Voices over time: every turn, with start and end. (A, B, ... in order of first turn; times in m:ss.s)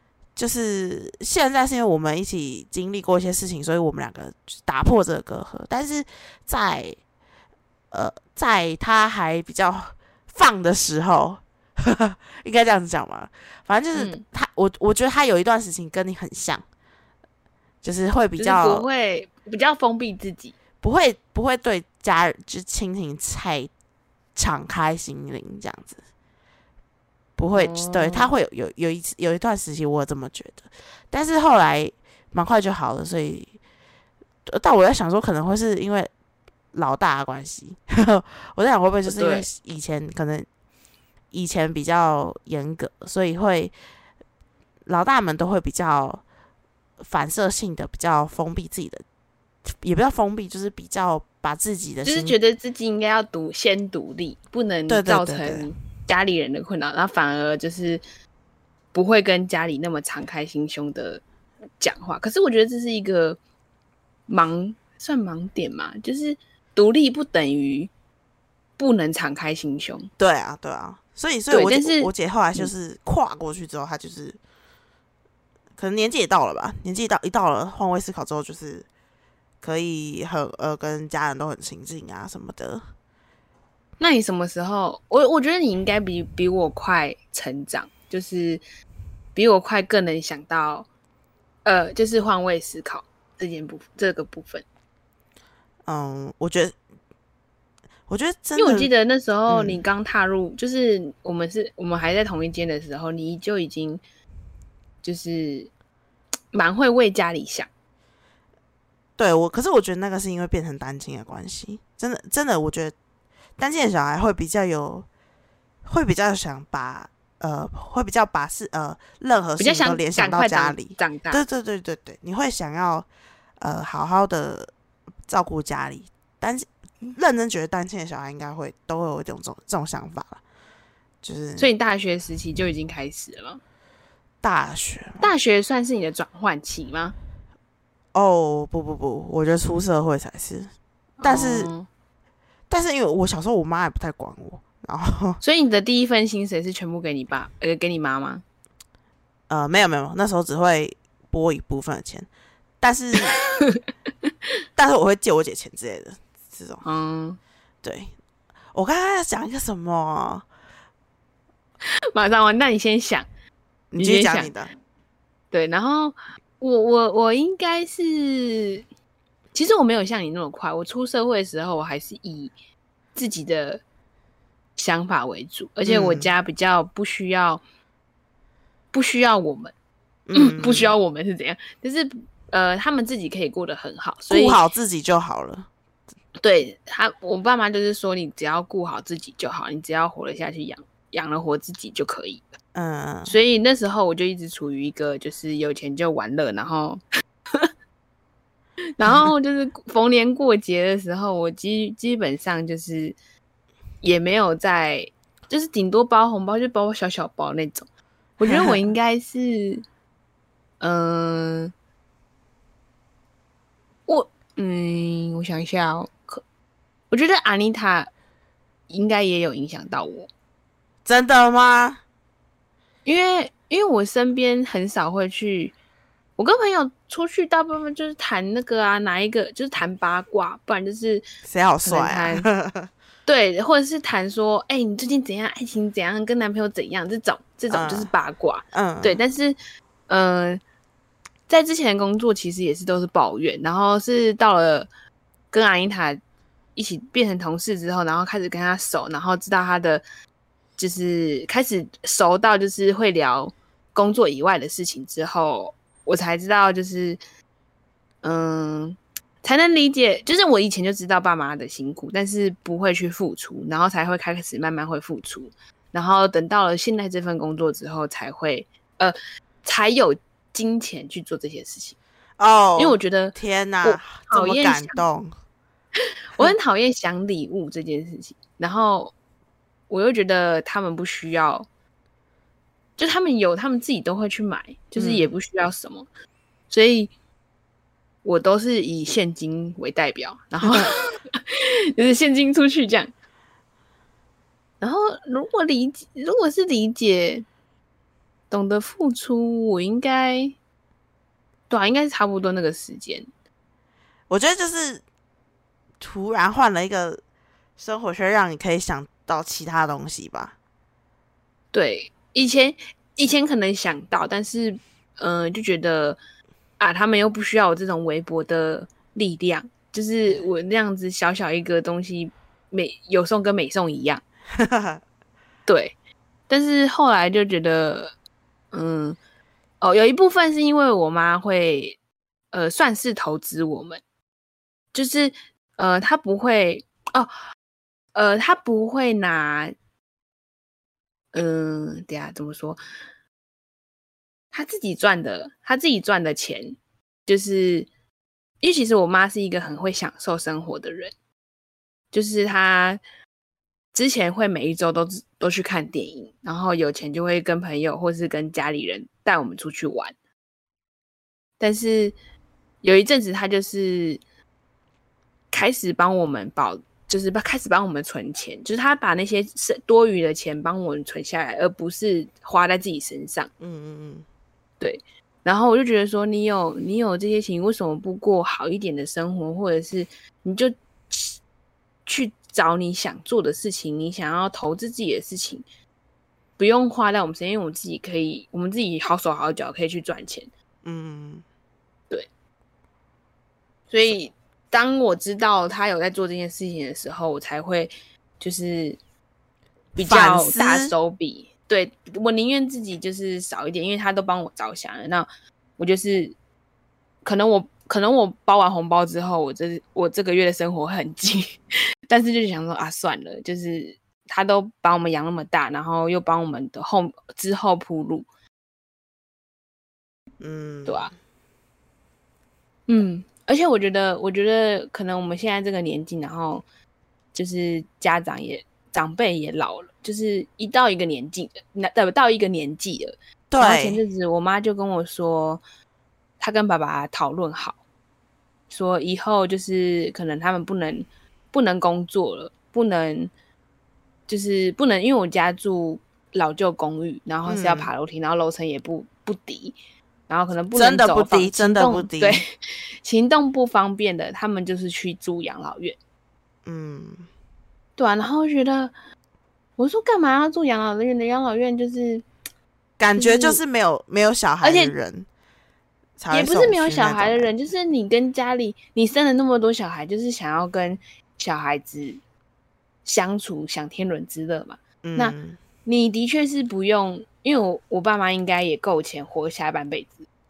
0:00.4-0:07.0 A
0:07.9-0:16.6 A
0:14.0-0:14.2 B
0:17.8-0:18.9 A
0:18.4-0:20.6 B
0:20.8-0:23.7 A
0:24.4-0:26.0 A
0:27.4-0:33.5 A
0:27.6-0:28.3 B
0:34.5-0:36.1 A
0:36.7-0:40.5 A
0:39.1-0:39.4 B
0:41.3-0:43.7 A
0:44.9-0:46.2 A
0:47.0-0:49.0 A
0:49.7-0:52.3 A
0:52.1-0:58.0 B
0:54.9-0:55.7 A
0:58.9-1:01.2 B
1:01.8-1:03.4 B
1:04.3-1:07.9 B
1:08.8-1:10.1 B
1:10.2-1:14.4 A
1:11.5-1:12.7 B
1:15.8-1:18.9 A
1:19.6-1:22.8 A
1:24.0-1:28.6 B
1:29.4-1:30.9 B
1:31.6-1:34.6 B
1:35.9-1:36.8 A
1:38.1-1:38.9 A
1:38.6-1:44.0 B
1:39.5-1:39.8 A
1:45.0-1:45.7 B
1:46.5-1:47.7 B
1:49.2-1:53.0 A
1:53.6-1:55.1 A
1:55.8-2:03.1 A
1:59.6-2:01.4 B
2:03.6-2:04.7 A
2:05.3-2:10.4 A
2:11.2-2:11.7 A
2:11.6-2:13.6 B
2:14.4-2:15.3 A
2:15.2-2:17.2 B
2:18.1-2:20.7 A
2:21.2-2:21.9 B
2:21.2-2:21.7 A
2:22.7-2:25.4 A
2:25.4-2:28.4 B
2:29.5-2:32.3 A
2:32.8-2:33.4 A
2:34.8-2:36.8 A
2:36.8-2:37.4 B
2:37.8-2:38.1 A
2:38.7-2:40.5 A
2:42.1-2:43.3 B
2:43.9-2:44.7 A
2:44.0-2:44.5 B
2:45.5-2:48.8 B
2:49.5-2:52.5 B
2:53.2-2:53.8 B
2:54.8-2:57.6 B
2:55.8-2:56.3 A
2:58.9-2:59.7 B
3:00.3-3:01.0 A
3:00.4-3:04.6 B
3:04.3-3:05.7 A
3:06.4-3:12.5 B
3:12.7-3:13.4 A
3:13.3-3:17.0 B
3:19.0-3:23.2 B
3:24.0-3:27.9 B
3:28.4-3:29.8 B
3:28.4-3:28.8 A
3:30.8-3:31.7 B
3:34.1-3:36.4 B
3:37.1-3:38.1 B
3:38.9-3:40.3 B
3:41.0-3:42.0 A
3:43.0-3:45.7 B
3:46.4-3:51.2 B
3:51.4-3:52.9 A
3:51.8-3:52.5 B
3:53.3-3:59.6 B
3:57.7-3:58.1 A
3:58.7-3:59.2 A
4:00.1-4:00.6 B
4:01.5-4:04.9 B
4:05.5-4:06.2 B
4:06.8-4:10.0 B
4:10.8-4:17.2 B
4:18.2-4:32.0 B
4:32.4-4:35.3 A
4:32.8-4:35.0 B
4:36.4-4:39.1 B
4:39.9-4:41.7 B
4:43.0-4:46.1 B
4:45.0-4:45.3 A
4:46.7-4:47.1 B
4:48.2-4:53.1 B
4:54.8-4:57.4 B
4:58.5-5:00.6 B
5:01.7-5:03.3 B
5:04.3-5:05.0 A
5:06.0-5:07.2 A
5:07.8-5:10.6 A
5:11.7-5:16.2 B
5:16.8-5:24.2 B
5:24.6-5:25.0 A
5:25.7-5:25.9 B
5:26.5-5:28.1 B
5:28.7-5:29.2 B
5:29.8-5:32.0 B
5:32.5-5:34.0 B
5:34.9-5:37.3 B
5:38.2-5:39.7 B
5:41.3-5:42.8 B
5:44.5-5:47.9 B
5:48.6-5:51.1 B
5:52.1-5:53.0 B
5:53.9-6:00.2 B
6:01.6-6:02.2 B
6:02.8-6:04.2 B
6:05.5-6:13.5 B
6:13.6-6:14.3 A
6:14.8-6:21.4 B
6:22.1-6:25.6 B
6:26.6-6:30.5 B
6:30.8-6:31.4 A
6:33.9-6:39.0 B
6:40.0-6:40.9 A
6:40.0-6:45.3 B
6:45.8-6:46.4 B
6:47.2-6:58.3 B
7:00.4-7:01.1 A
7:00.9-7:01.1 B
7:02.9-7:06.6 B
7:07.3-7:15.6 B
7:13.5-7:14.0 A
7:16.4-7:17.8 B
7:18.7-7:23.3 B
7:24.3-7:29.8 B
7:27.4-7:27.9 A
7:30.3-7:36.0 B
7:30.7-7:32.4 A
7:36.7-7:37.3 A
7:38.0-7:38.9 B
7:39.8-7:42.3 B
7:43.0-7:45.3 A
7:43.2-7:43.6 B
7:44.6-7:44.9 B
7:46.2-7:47.5 A
7:46.3-7:52.2 B
7:53.0-8:00.3 B
7:55.0-7:55.6 A